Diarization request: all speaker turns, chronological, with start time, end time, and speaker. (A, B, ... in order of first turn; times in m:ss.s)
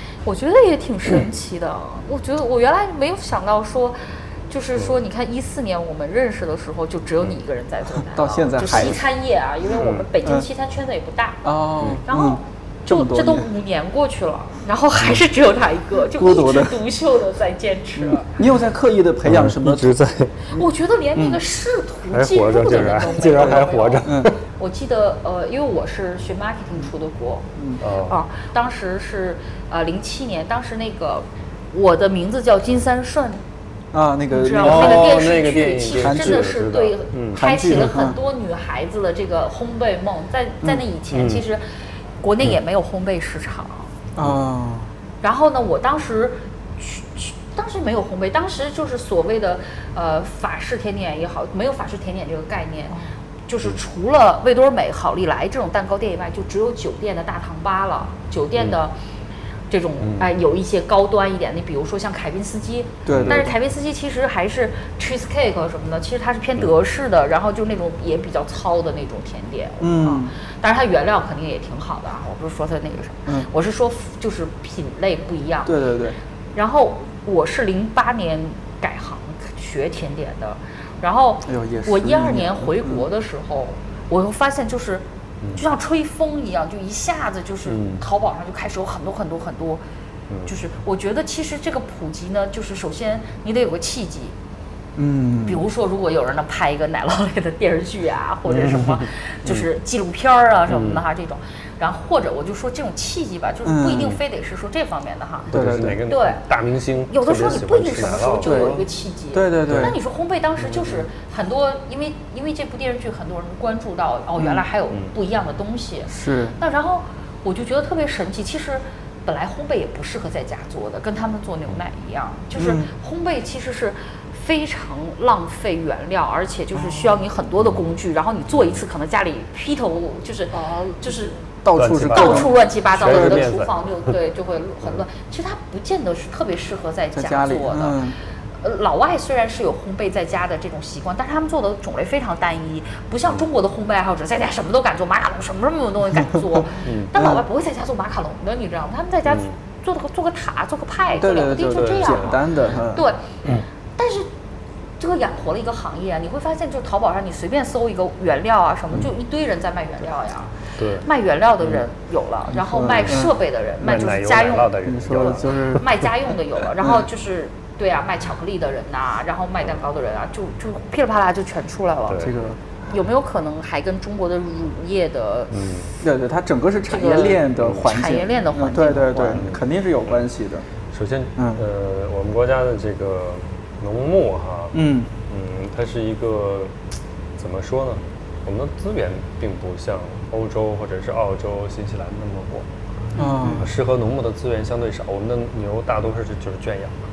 0:00.2-0:11.5 A
0:08.1-0:09.0 B
0:09.8-0:10.1 C
0:10.2-0:10.5 B
0:11.4-0:13.5 B
0:12.0-0:18.3 A
0:15.0-0:15.2 C
0:16.1-0:16.8 B
0:18.0-0:20.0 B
0:19.2-0:20.3 C
0:20.5-0:33.4 A
0:21.1-0:21.4 B
0:22.1-0:24.4 C
0:23.4-0:24.3 B
0:27.8-0:28.2 C
0:33.9-0:35.2 B
0:34.3-0:41.6 A
0:34.6-0:37.4 C
0:35.9-0:36.6 B
0:37.3-0:38.2 B
0:41.1-0:41.4 C
0:42.2-0:43.9 A
0:44.2-0:44.9 B
0:45.2-0:58.9 A
0:59.7-1:15.8 A
1:00.0-1:00.3 C
1:03.0-1:03.5 B
1:03.1-1:03.5 C
1:09.8-1:10.3 B
1:15.6-1:16.2 B
1:16.5-1:29.8 A
1:21.4-1:23.0 B
1:27.6-1:28.0 C
1:30.3-1:30.6 C
1:30.5-1:34.3 A
1:35.0-1:35.6 B
1:35.4-1:45.5 A
1:38.4-1:39.7 C
1:40.7-1:41.0 C
1:43.6-1:44.1 B
1:45.5-1:48.9 C
1:45.5-1:46.0 B
1:46.1-1:46.4 A
1:47.1-2:11.4 A
1:48.4-1:50.0 B
1:49.7-1:50.0 C
1:50.6-1:51.0 C
1:54.4-1:54.6 B
1:56.1-1:56.6 B
2:02.6-2:02.9 B
2:06.7-2:07.2 B
2:11.6-2:13.5 B
2:11.7-2:13.9 C
2:12.1-2:18.1 A
2:17.1-2:18.1 B
2:18.6-2:32.4 A
2:26.8-2:27.1 C
2:27.1-2:27.4 B
2:29.2-2:29.5 C
2:31.2-2:33.1 B
2:31.4-2:32.4 C
2:32.9-2:34.3 A
2:35.0-2:52.3 A
2:40.8-2:41.1 C
2:42.5-2:43.3 B
2:43.0-2:45.8 C
2:44.8-2:45.9 B
2:52.1-2:52.3 C
2:52.2-2:52.6 B
2:52.9-2:55.5 A
2:55.5-2:55.9 C
2:56.0-3:00.6 B
2:56.9-2:59.4 A
2:57.6-2:58.0 C
2:59.3-2:59.6 C
3:00.9-3:04.7 C
3:01.4-3:01.6 B
3:04.7-3:05.1 B
3:05.3-3:06.7 C
3:07.4-3:12.6 C
3:13.2-3:13.5 A
3:13.2-3:13.7 B
3:13.4-3:17.0 C